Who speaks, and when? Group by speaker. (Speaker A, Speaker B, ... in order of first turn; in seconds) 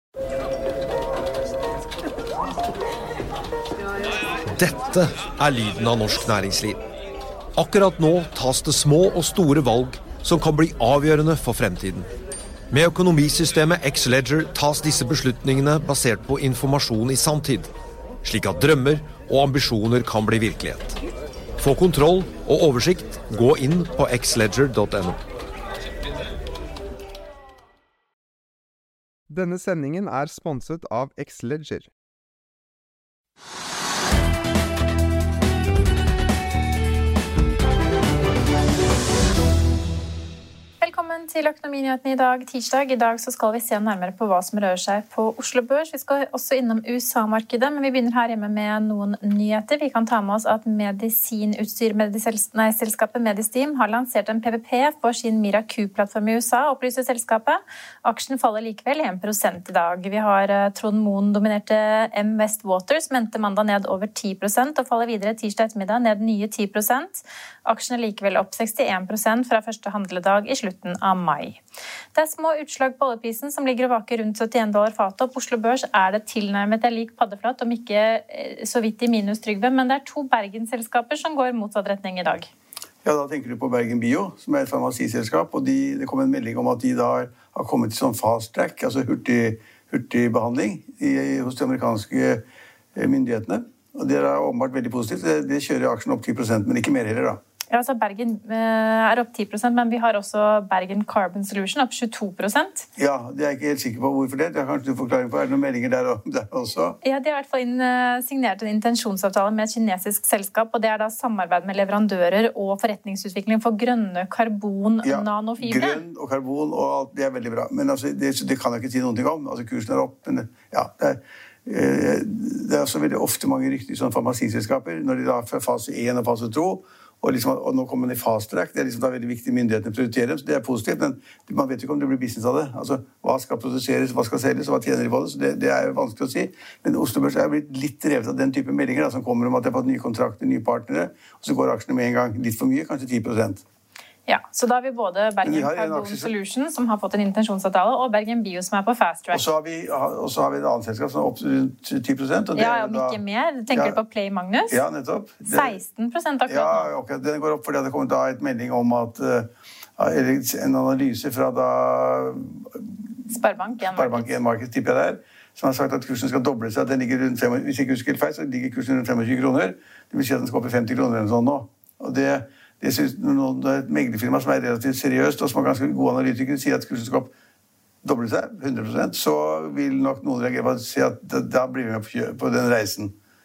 Speaker A: 4.5-6.8, 7.6-12.1, 12.7-17.7, 18.2-21.0, 21.6-25.2
Speaker B: 29.3-31.9
Speaker C: 40.8-71.6, 72.1-82.5, 97.7-102.9, 107.0-116.0, 144.3-149.5, 152.6-154.8, 155.5-156.9, 163.3-164.3
Speaker D: 83.0-92.4, 93.0-97.4, 103.0-107.0, 115.0-143.6, 145.4-146.3, 149.3-153.2, 153.7-154.0, 154.7-155.8, 156.5-162.8, 163.9-177.3, 178.0-183.2